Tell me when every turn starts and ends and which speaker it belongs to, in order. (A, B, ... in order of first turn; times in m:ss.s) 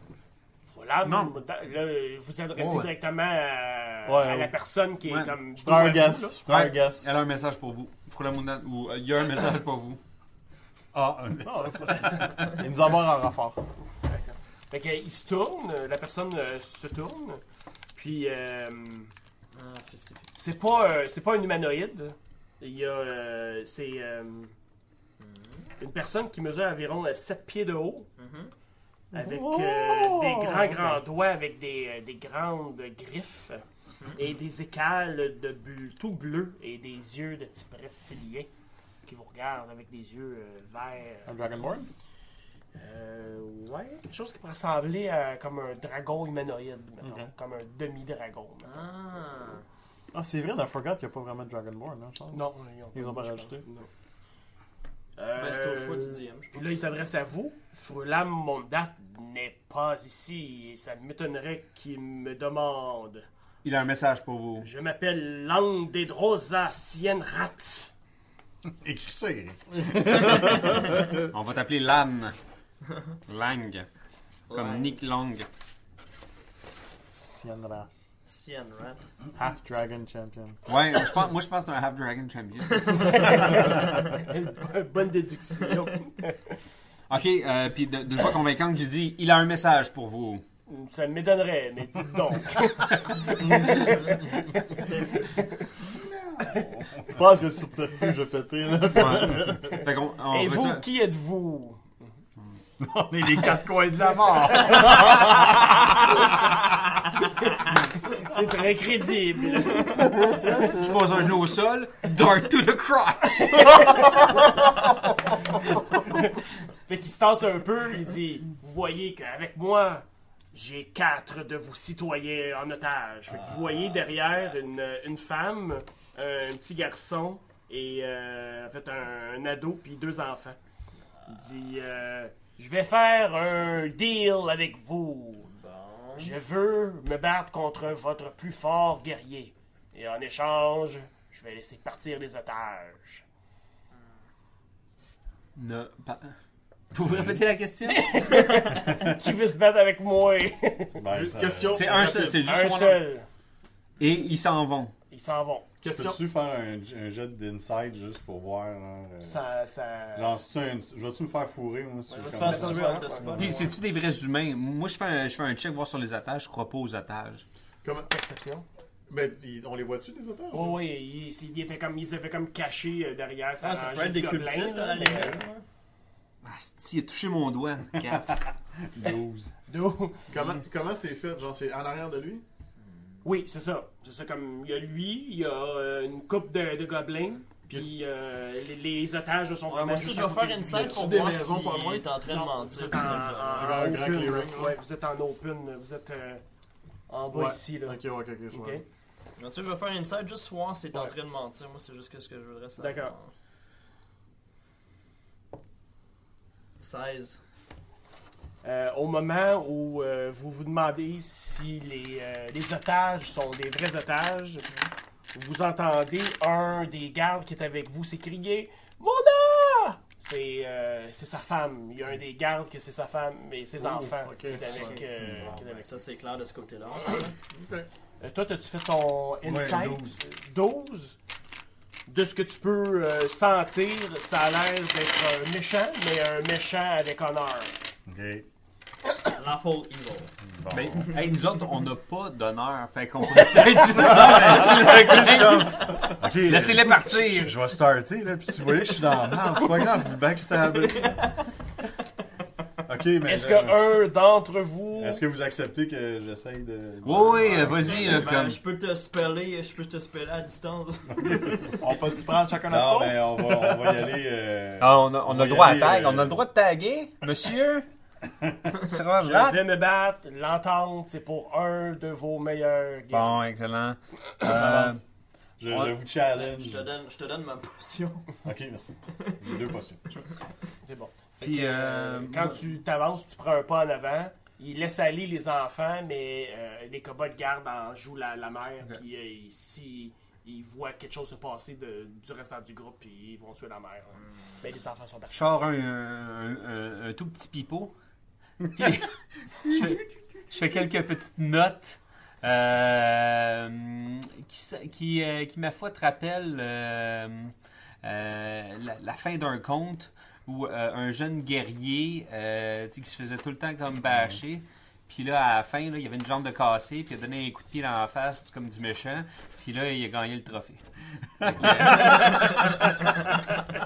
0:00.7-0:06.3 A
0:01.0-0:01.4 B
0:02.6-0:02.9 B
0:04.1-0:04.5 C
0:05.1-0:05.4 B
0:05.6-0:07.1 C
0:06.5-0:10.0 B
0:10.9-0:12.4 D
0:11.4-0:13.6 C
0:14.0-0:17.4 A
0:18.0-0:19.1 A
0:19.5-0:20.3 E
0:20.4-0:24.5 A
0:25.2-0:25.7 E
0:25.8-0:28.1 A
0:28.2-0:28.5 E
0:29.1-0:31.0 C
0:29.1-0:38.5 A
0:39.1-0:41.3 A
0:41.3-0:41.9 C
0:42.8-0:48.8 A
0:47.0-0:47.3 C
0:48.6-0:49.6 E
0:50.1-0:53.6 C
0:52.3-0:53.9 A
0:55.2-1:03.2 A
0:55.4-0:57.1 E
1:03.6-1:04.7 B
1:04.6-1:07.9 A
1:08.7-1:10.8 D
1:09.9-1:10.7 C
1:11.3-1:12.4 B
1:13.3-1:13.9 B
1:14.5-1:15.0 E
1:14.5-1:15.5 B
1:17.1-1:17.9 C
1:18.3-1:19.0 E
1:19.4-1:20.6 C
1:20.7-1:23.6 B
1:23.1-1:26.6 A
1:27.1-1:30.4 B
1:30.7-1:35.7 A
1:36.1-1:37.2 D
1:37.1-1:39.8 C
1:38.9-1:40.9 B
1:40.3-1:41.9 A
1:42.8-1:45.3 D
1:47.5-1:50.7 A
1:50.6-1:54.3 B
1:55.6-2:10.6 A
2:11.3-2:15.5 A
2:15.5-2:16.4 E
2:16.2-2:23.2 A
2:25.6-2:26.4 B
2:26.9-2:28.6 B
2:27.0-2:27.4 D
2:27.9-2:31.0 A
2:31.0-2:31.9 D
2:31.1-2:32.5 C
2:31.7-2:33.0 B
2:32.4-2:33.3 A
2:34.0-2:34.9 B
2:35.1-2:35.7 A
2:35.8-2:36.2 C
2:35.9-2:39.4 D
2:39.2-2:40.4 A
2:40.2-2:42.9 D
2:42.1-2:43.6 A
2:42.2-2:43.7 E
2:43.4-2:47.4 B
2:47.8-2:48.1 C
2:48.1-2:48.6 A
2:49.1-2:50.8 C
2:50.5-2:55.4 A
2:53.6-2:55.6 E
2:56.4-2:58.4 B
2:58.0-2:59.5 D
2:59.7-3:00.3 A
3:00.3-3:02.4 C
3:03.2-3:11.2 A
3:09.7-3:13.8 E
3:10.8-3:12.1 C
3:12.2-3:16.4 A
3:13.5-3:14.8 C
3:17.1-3:18.0 A
3:17.3-3:18.8 C
3:18.5-3:18.8 A
3:19.4-3:23.3 E
3:22.8-3:23.1 A
3:26.8-3:27.4 E
3:28.6-3:34.7 A
3:35.3-3:46.0 A
3:43.8-3:45.0 C
3:44.6-3:47.4 E
3:45.2-3:45.5 D
3:47.5-3:47.9 C
3:48.2-3:51.2 A
3:49.4-3:50.2 D
3:52.1-3:57.7 A
3:58.1-3:58.5 D
3:59.3-4:00.3 E
4:00.4-4:01.1 D
4:00.7-4:07.6 B
4:03.9-4:11.3 D
4:12.9-4:14.0 D
4:13.2-4:15.2 A
4:15.0-4:18.2 D
4:17.0-4:18.6 B
4:17.4-4:21.8 E
4:21.1-4:21.8 D
4:21.8-4:23.9 C
4:22.7-4:26.4 D
4:24.8-4:27.9 B
4:28.7-4:29.6 B
4:29.2-4:33.4 A
4:33.1-4:35.0 B
4:34.5-4:35.0 D
4:35.6-4:36.9 D
4:35.7-4:36.0 B
4:36.3-4:38.4 E
4:38.4-4:40.2 D
4:40.8-4:55.6 A
4:41.4-4:42.6 B
4:55.3-4:57.9 B
4:58.8-4:59.1 B
4:59.6-5:20.9 B
5:21.4-5:22.7 B
5:21.4-5:22.4 D